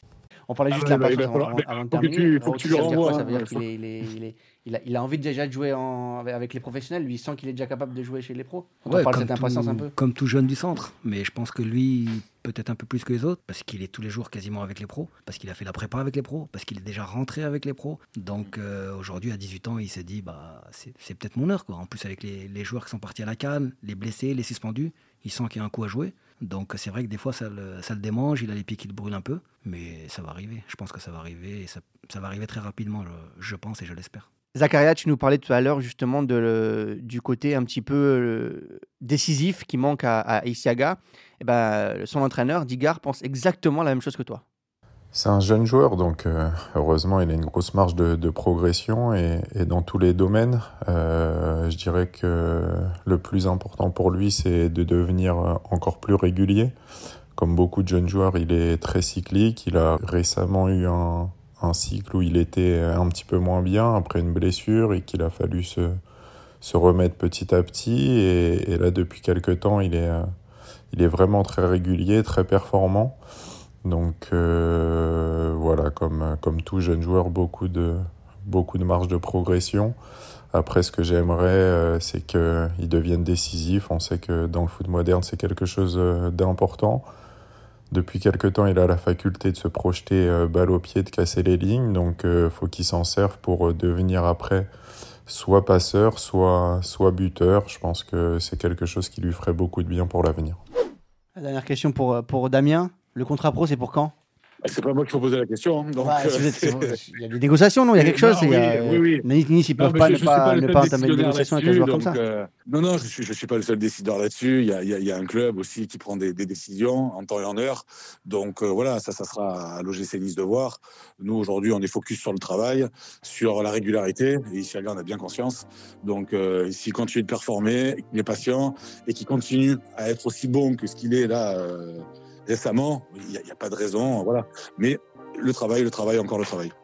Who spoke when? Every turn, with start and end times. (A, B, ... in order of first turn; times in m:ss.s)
0:00.5-0:09.9 A
0:00.7-0:03.6 B
0:08.9-0:34.3 C
0:34.6-0:44.4 A
0:45.1-0:56.7 D
0:57.4-1:06.0 D
1:06.6-1:10.2 D
1:10.9-1:13.2 D
1:13.8-1:20.0 D
1:20.5-1:27.0 D
1:27.9-1:34.7 D
1:35.3-1:40.6 D
1:41.4-1:44.1 A
1:44.6-1:47.0 B
1:46.0-1:52.2 A
1:48.0-1:49.2 B
1:49.8-2:16.7 B